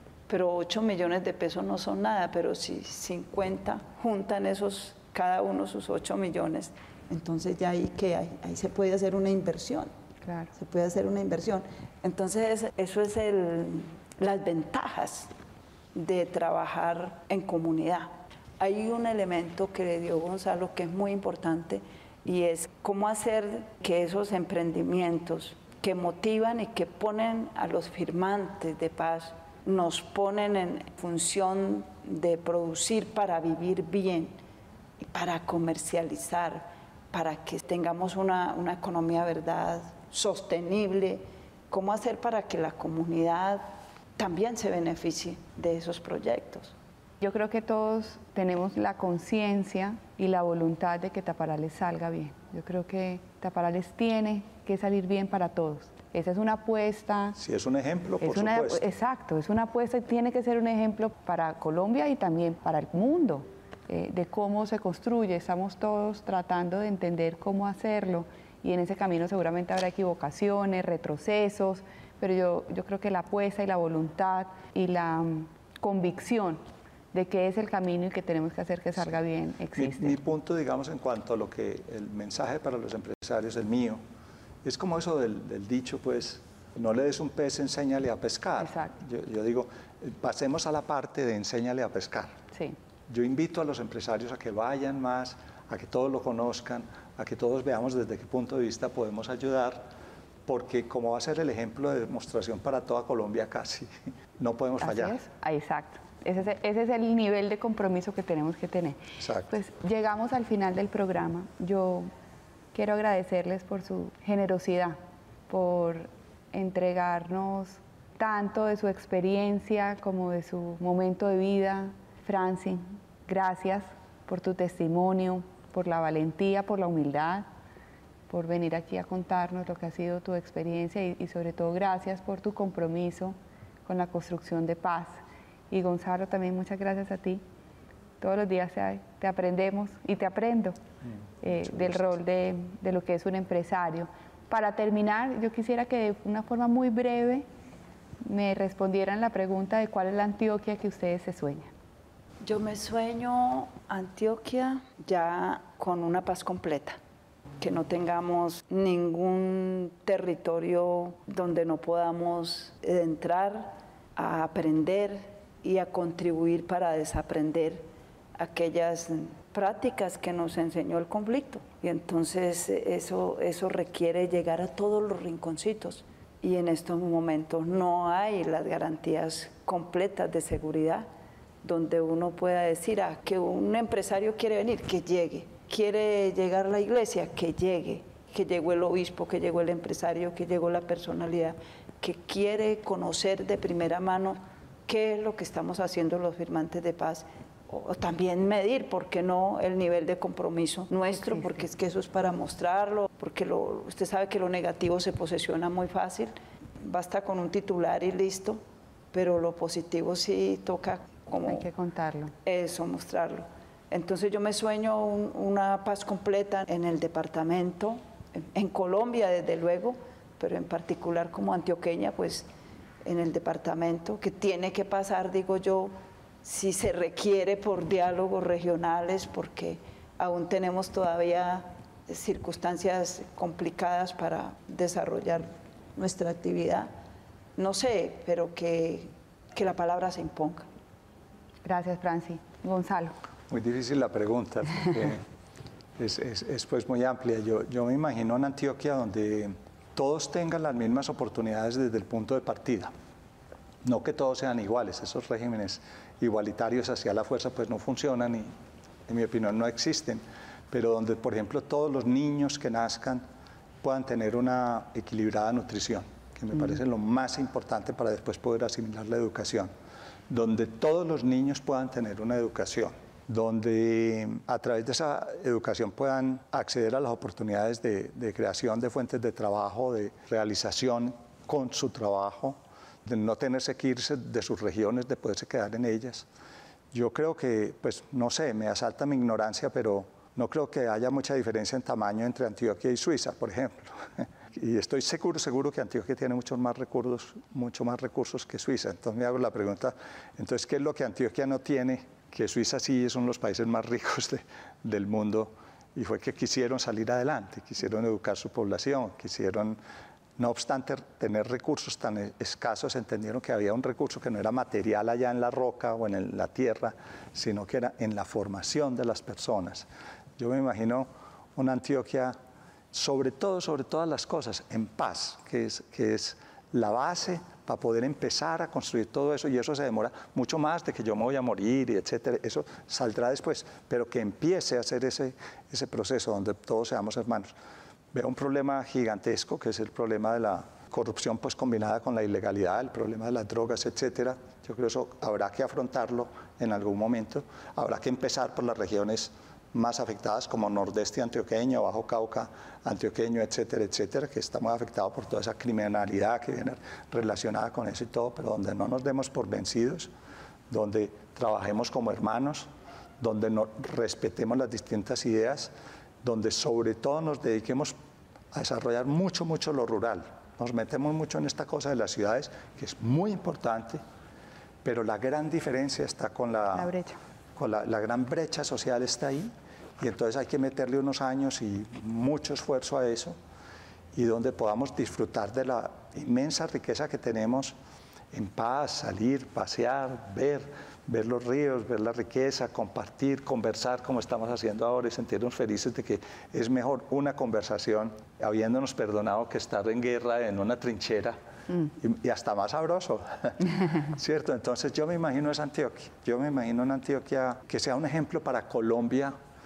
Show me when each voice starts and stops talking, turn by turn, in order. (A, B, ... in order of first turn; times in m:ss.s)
0:00.3-0:09.9 A
0:10.2-0:10.5 B
0:10.5-0:15.3 A
0:15.9-0:34.4 A
0:35.0-0:43.6 A
0:44.2-0:46.7 A
0:47.2-0:57.4 B
0:57.3-0:58.8 C
0:58.2-1:20.2 B
1:19.8-1:24.0 C
1:24.6-1:32.4 C
1:28.6-1:28.9 B
1:33.1-1:39.9 C
1:40.5-1:45.2 C
1:44.8-1:52.1 B
1:49.2-1:49.5 C
1:52.7-1:55.0 B
1:55.5-2:07.5 B
2:08.3-2:17.4 B
2:18.2-2:20.8 B
2:21.4-2:27.4 B
2:28.2-2:31.7 B
2:32.4-2:37.0 A
2:37.6-2:47.8 A
2:48.4-3:01.0 A
3:01.6-3:28.6 A
3:29.1-3:31.6 A
3:31.5-3:32.3 B
3:32.4-3:42.5 A
3:43.0-3:56.9 A
3:57.6-4:00.6 A
4:01.6-4:03.1 B
4:03.5-4:05.2 C
4:06.0-4:12.9 C
4:13.8-4:18.5 C
4:19.1-4:23.2 C
4:23.8-4:29.7 C
4:30.3-4:46.2 C
4:46.9-5:09.8 C
5:10.4-5:19.9 C
5:20.4-5:22.3 C
5:22.9-5:37.5 C
5:38.1-6:00.1 C
6:00.7-6:02.7 C
6:03.2-6:07.9 C
6:08.5-6:14.0 C
6:14.8-6:16.9 C
6:16.7-6:17.2 B
6:17.6-6:23.4 C
6:24.1-6:27.7 C
6:28.3-6:49.3 C